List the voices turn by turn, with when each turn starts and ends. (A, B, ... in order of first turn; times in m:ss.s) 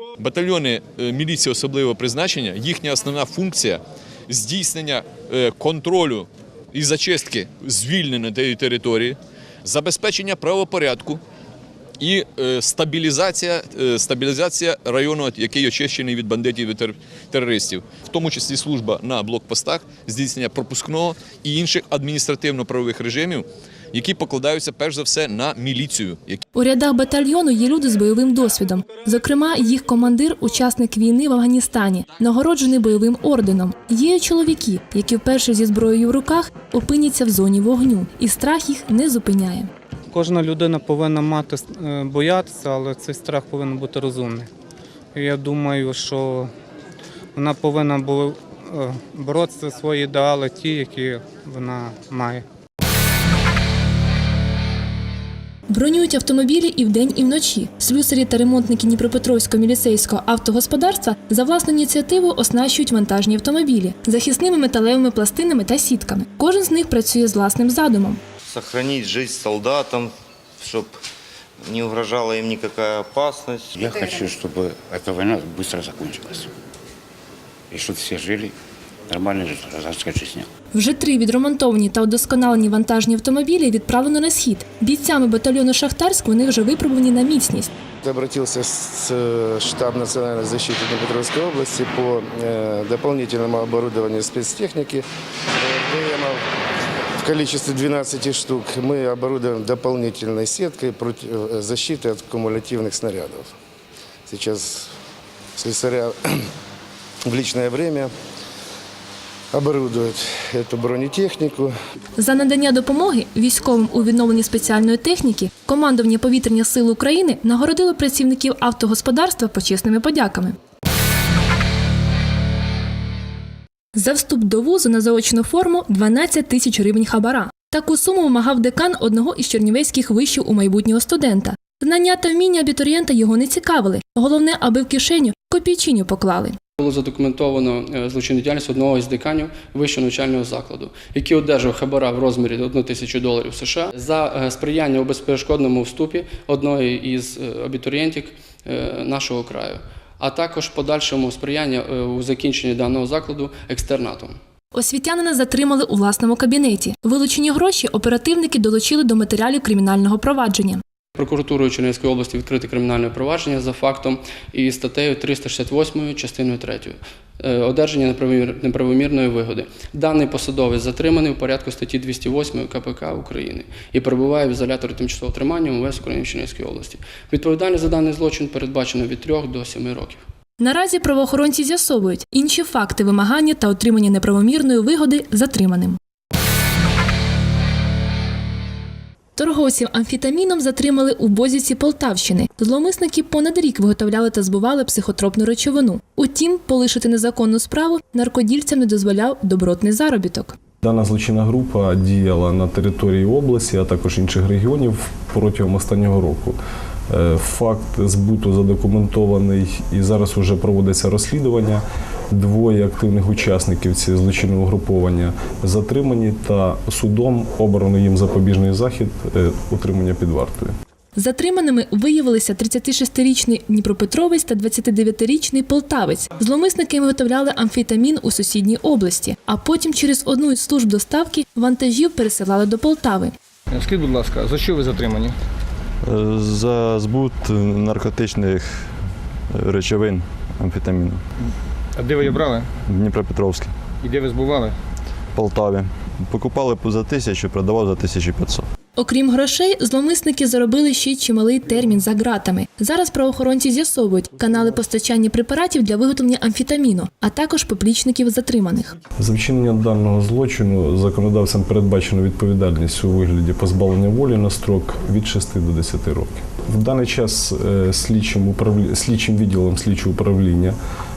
0:00.2-0:11.2 A
0:12.0-0:26.4 A
0:26.5-0:39.7 B
0:40.1-0:44.5 C
0:45.1-0:46.5 C
0:47.3-0:52.4 C
0:55.7-1:08.2 B
1:08.4-1:11.0 D
1:11.6-1:13.8 D
1:13.7-1:16.5 E
1:17.7-1:18.5 E
1:19.1-1:20.5 E
1:20.7-1:27.7 B
1:28.0-1:35.0 F
1:35.6-1:36.4 F
1:37.2-1:43.5 F
1:44.2-1:44.9 F
1:45.6-1:46.2 F
1:47.2-1:48.1 F
1:49.5-1:51.7 F
1:52.2-2:00.6 B
2:03.9-2:16.6 B
2:16.8-2:34.4 G
2:34.7-2:40.8 B
2:41.2-3:00.2 G
3:00.6-3:06.0 B
3:09.4-3:20.5 B
3:20.8-3:26.6 H
3:27.1-3:40.7 H
3:41.2-3:53.3 B
3:53.7-3:55.3 I
3:56.0-4:01.2 J
4:02.0-4:02.7 I
4:02.8-4:03.7 J
4:04.0-4:04.7 I
4:05.3-4:08.7 J
4:09.0-4:18.9 B
4:19.2-4:30.8 H